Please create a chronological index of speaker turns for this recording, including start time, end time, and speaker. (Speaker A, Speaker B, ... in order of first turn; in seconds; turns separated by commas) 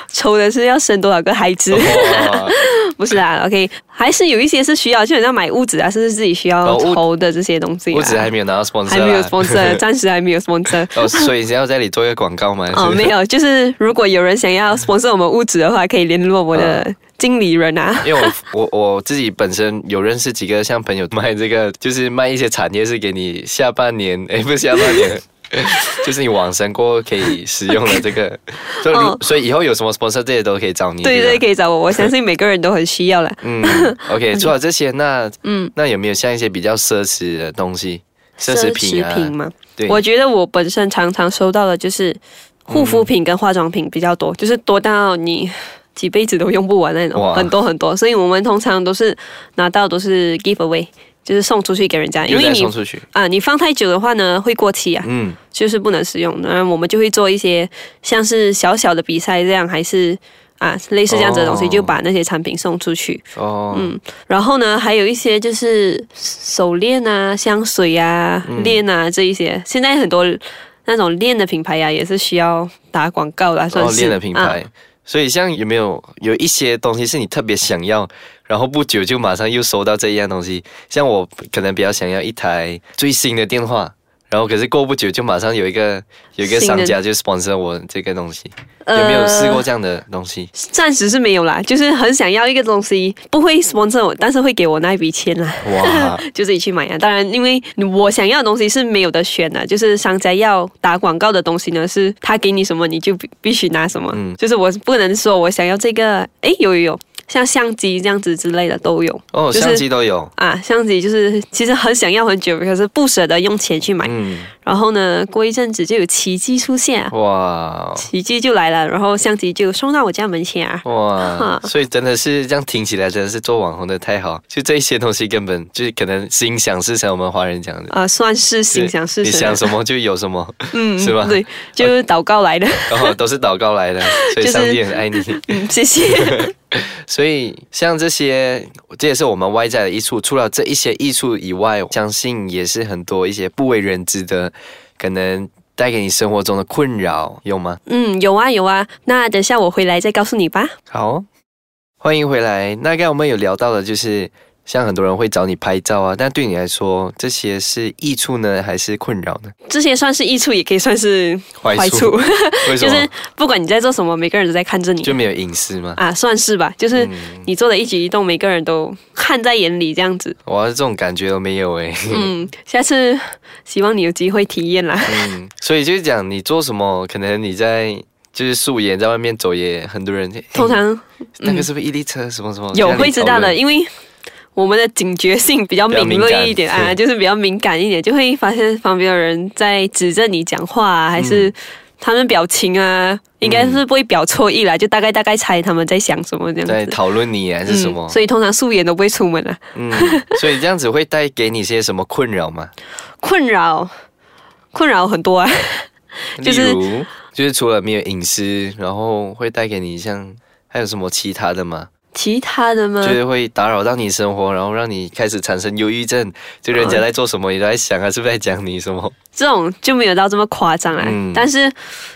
Speaker A: 0.1-8.3, Speaker B: 1.7-2.5, Speaker B: 6.7-7.0, Speaker B: 7.9-9.8, Speaker A: 8.9-11.3, Speaker B: 10.9-13.1, Speaker A: 12.7-18.3, Speaker B: 16.5-16.8, Speaker B: 18.0-31.4, Speaker A: 27.7-28.0, Speaker A: 28.7-29.2, Speaker A: 31.0-34.5, Speaker B: 33.4-40.0, Speaker A: 35.4-35.7, Speaker A: 38.4-74.6, Speaker B: 42.7-43.1, Speaker B: 47.1-47.5, Speaker B: 52.3-53.0, Speaker B: 55.0-55.4, Speaker B: 61.1-62.0, Speaker B: 63.4-63.9, Speaker B: 68.5-68.8, Speaker B: 73.7-90.5, Speaker A: 86.4-87.0, Speaker A: 88.8-89.7, Speaker A: 90.5-117.1, Speaker B: 95.6-96.2, Speaker B: 104.1-104.4, Speaker B: 109.3-110.3, Speaker B: 114.0-114.5, Speaker B: 117.1-118.1, Speaker A: 118.0-121.7, Speaker B: 120.8-127.9, Speaker A: 127.9-129.7, Speaker B: 128.7-131.9, Speaker A: 130.7-133.2, Speaker B: 132.9-135.6, Speaker A: 134.1-136.5, Speaker B: 136.2-147.8, Speaker A: 147.9-150.7, Speaker B: 150.9-151.2, Speaker B: 152.0-159.5, Speaker A: 159.7-165.2, Speaker B: 161.6-163.1, Speaker B: 165.0-166.0, Speaker A: 166.0-170.4, Speaker B: 166.9-167.5, Speaker B: 170.5-172.3, Speaker A: 172.1-175.3, Speaker B: 175.1-180.8, Speaker A: 180.5-181.7, Speaker B: 181.4-183.6, Speaker A: 182.7-183.9, Speaker A: 184.6-197.0, Speaker B: 185.9-187.0, Speaker B: 191.2-191.5, Speaker B: 193.4-193.8, Speaker B: 196.7-198.2, Speaker A: 197.7-200.3, Speaker B: 199.8-202.7, Speaker A: 203.2-203.9, Speaker A: 204.7-206.8, Speaker B: 206.4-211.9, Speaker A: 212.1-213.2, Speaker B: 213.0-219.2, Speaker A: 216.7-217.0, Speaker A: 219.3-221.8, Speaker B: 221.0-221.5